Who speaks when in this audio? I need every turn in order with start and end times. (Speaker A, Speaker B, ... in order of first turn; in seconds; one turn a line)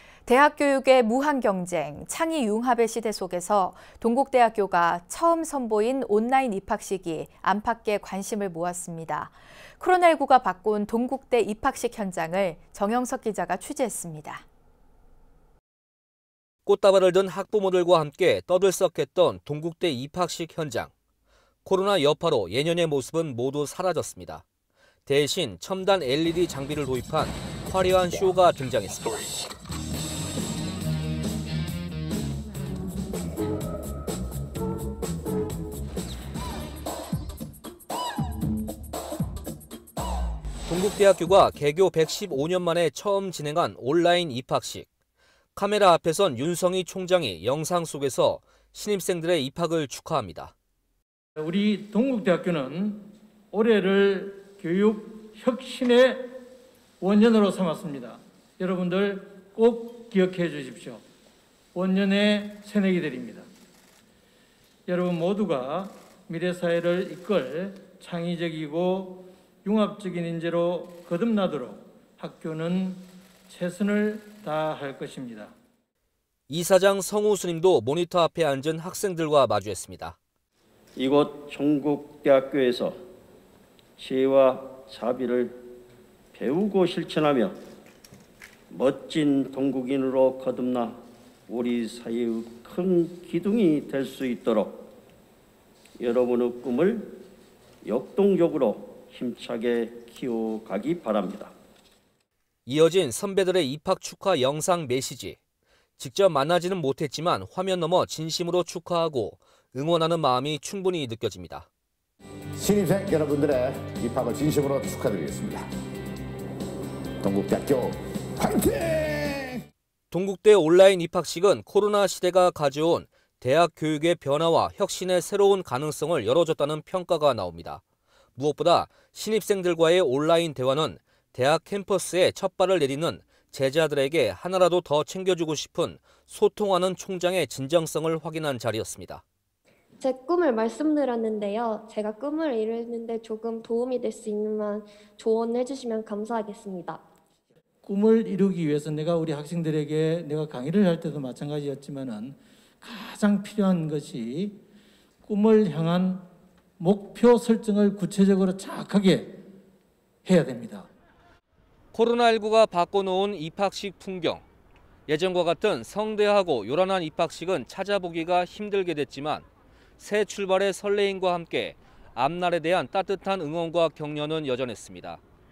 Speaker A: 0.3-14.4
Speaker B: 16.7-20.9
Speaker B: 21.6-24.4
Speaker B: 25.1-29.2
Speaker B: 40.7-44.9
Speaker B: 45.5-50.5
Speaker C: 51.4-56.4
Speaker C: 57.0-61.0
Speaker C: 61.8-63.5
Speaker C: 64.9-75.5
Speaker B: 76.5-80.2
Speaker D: 81.0-82.9
Speaker D: 84.0-85.6
Speaker D: 86.3-87.5
Speaker D: 88.7-91.0
Speaker D: 91.5-94.9
Speaker D: 96.0-97.2
Speaker D: 97.8-101.5
Speaker B: 102.7-105.4
Speaker B: 106.0-111.7
Speaker E: 112.6-115.7
Speaker E: 117.2-119.6
Speaker B: 120.1-127.8
Speaker B: 128.4-139.2
Speaker F: 140.0-147.0
Speaker C: 147.9-154.6
Speaker C: 155.3-156.2
Speaker C: 156.8-159.4
Speaker C: 160.2-160.9
Speaker B: 161.9-164.4
Speaker B: 165.1-169.5
Speaker B: 170.0-175.2